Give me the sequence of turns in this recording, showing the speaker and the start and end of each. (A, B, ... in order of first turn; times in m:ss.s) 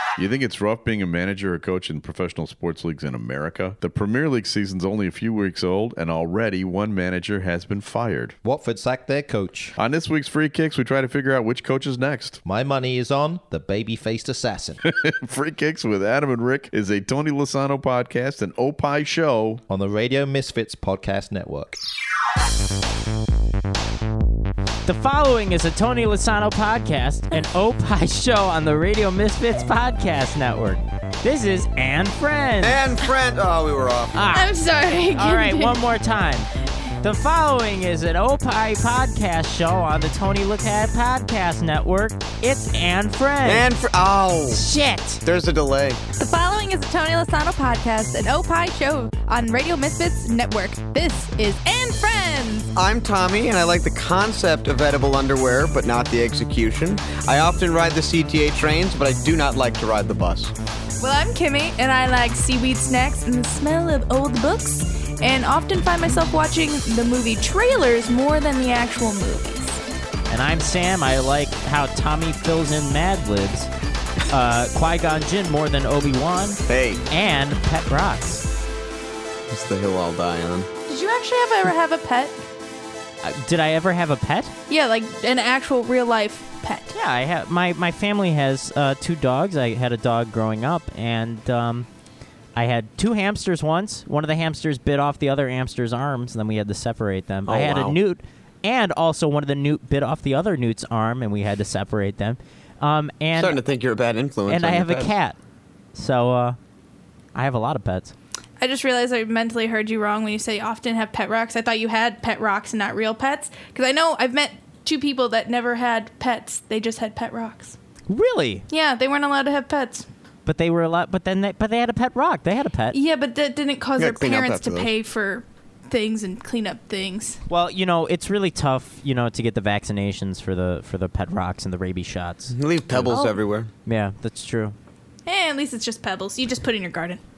0:00.2-0:08.4 A
0:08.4-0:09.8 B
0:09.8-0:12.4 A
0:12.4-0:14.8 B
0:15.0-0:19.6 A
0:19.7-0:21.8 B
0:24.9-0:32.8 C
0:32.6-0:34.2 D
0:34.1-0:34.6 C
0:34.3-0:35.8 E
0:35.1-0:36.5 C
0:37.0-0:43.7 C
0:43.4-0:44.7 D
0:44.5-0:45.2 C
0:45.2-0:46.0 D
0:46.2-0:52.7 E
0:52.8-1:00.5 D
1:01.0-1:09.8 E
1:10.3-1:13.7 C
1:14.3-1:18.4 C
1:16.7-1:17.0 D
1:19.5-1:20.7 D
1:20.9-1:22.4 E
1:23.2-1:24.5 C
1:24.7-1:27.0 E
1:26.9-1:31.9 C
1:32.6-1:43.6 C
1:37.5-1:38.0 D
1:43.4-1:45.2 D
1:44.5-1:45.4 C
1:46.0-1:46.6 C
1:47.3-1:48.1 C
1:48.6-1:57.8 E
1:58.1-1:58.6 C
1:58.7-2:00.1 E
2:00.5-2:03.0 C
2:02.9-2:07.4 E
2:04.0-2:04.9 D
2:07.5-2:13.3 C
2:12.5-2:13.7 D
2:13.8-2:14.8 C
2:15.2-2:17.2 E